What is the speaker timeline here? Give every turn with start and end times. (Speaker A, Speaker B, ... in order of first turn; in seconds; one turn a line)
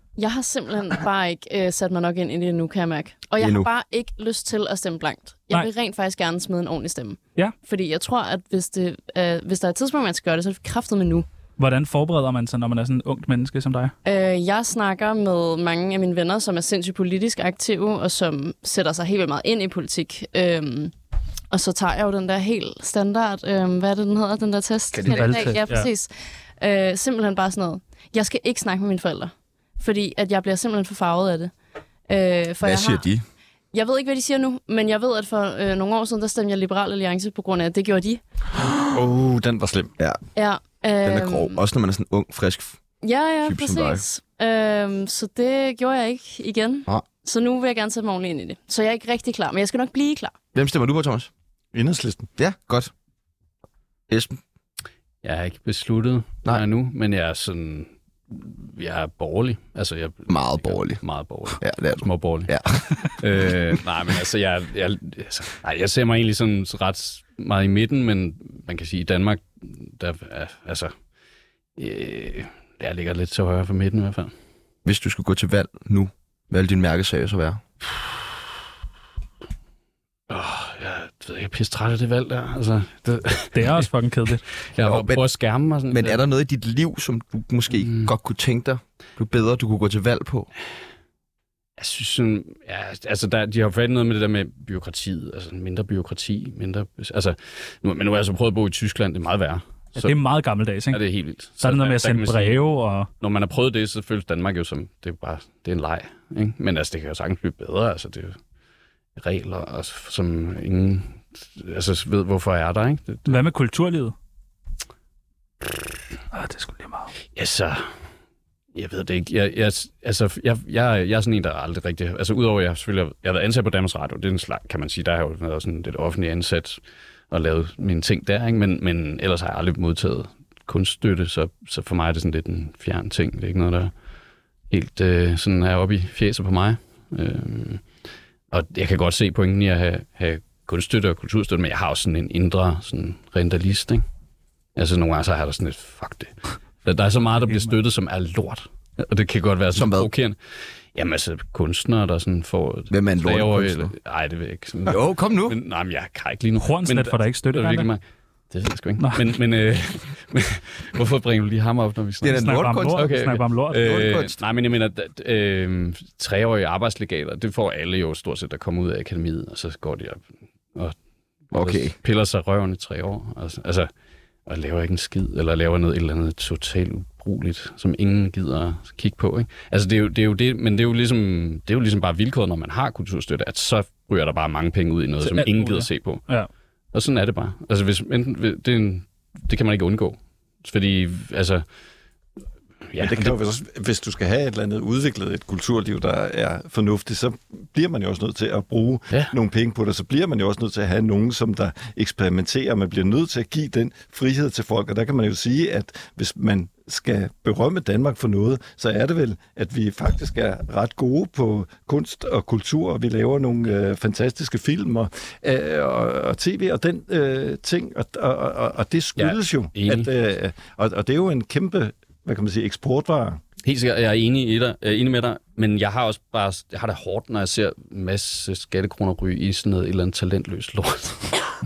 Speaker A: 0.2-11.2
Speaker B: 3.4-3.7
Speaker C: 11.6-13.9
Speaker A: 14.0-20.9
Speaker A: 21.5-31.5
Speaker B: 24.9-25.6
Speaker C: 25.1-25.9
Speaker A: 32.1-33.0
Speaker B: 32.6-33.2
Speaker A: 33.7-38.2
Speaker D: 38.6-39.9
Speaker A: 40.4-41.6
Speaker B: 41.0-42.8
Speaker A: 43.0-50.3
Speaker B: 43.4-44.0
Speaker B: 50.5-51.3
Speaker D: 51.7-52.3
Speaker B: 52.4-52.9
Speaker B: 54.1-54.4
Speaker E: 55.2-70.9
Speaker B: 60.3-61.0
Speaker B: 61.6-63.8
Speaker E: 71.8-74.3
Speaker B: 74.8-77.6
Speaker E: 80.3-83.9
Speaker C: 83.5-84.4
Speaker E: 84.7-86.2
Speaker B: 84.8-85.2
Speaker B: 85.9-90.5
Speaker E: 87.7-88.1
Speaker E: 91.8-100.2
Speaker C: 100.0-101.0
Speaker E: 100.9-102.6
Speaker C: 101.6-103.1
Speaker E: 103.2-108.4
Speaker E: 109.2-113.4
Speaker C: 113.2-114.1
Speaker C: 116.3-117.1
Speaker E: 117.3-117.9
Speaker E: 118.7-126.8
Speaker E: 127.3-133.9
Speaker E: 134.7-137.8
Speaker E: 138.5-144.0
Speaker E: 144.8-150.4
Speaker C: 147.5-147.7
Speaker B: 149.7-150.1
Speaker E: 150.9-170.2
Speaker B: 152.9-153.9
Speaker B: 154.8-155.6
Speaker C: 156.6-157.9
Speaker B: 162.2-163.1
Speaker C: 162.3-163.9
Speaker B: 163.7-164.4
Speaker B: 171.5-171.9
Speaker E: 171.5-173.9
Speaker E: 174.4-186.2
Speaker C: 185.2-186.5
Speaker E: 186.9-191.6
Speaker E: 192.9-193.4
Speaker D: 193.0-223.4
Speaker E: 219.2-220.1
Speaker E: 223.6-231.5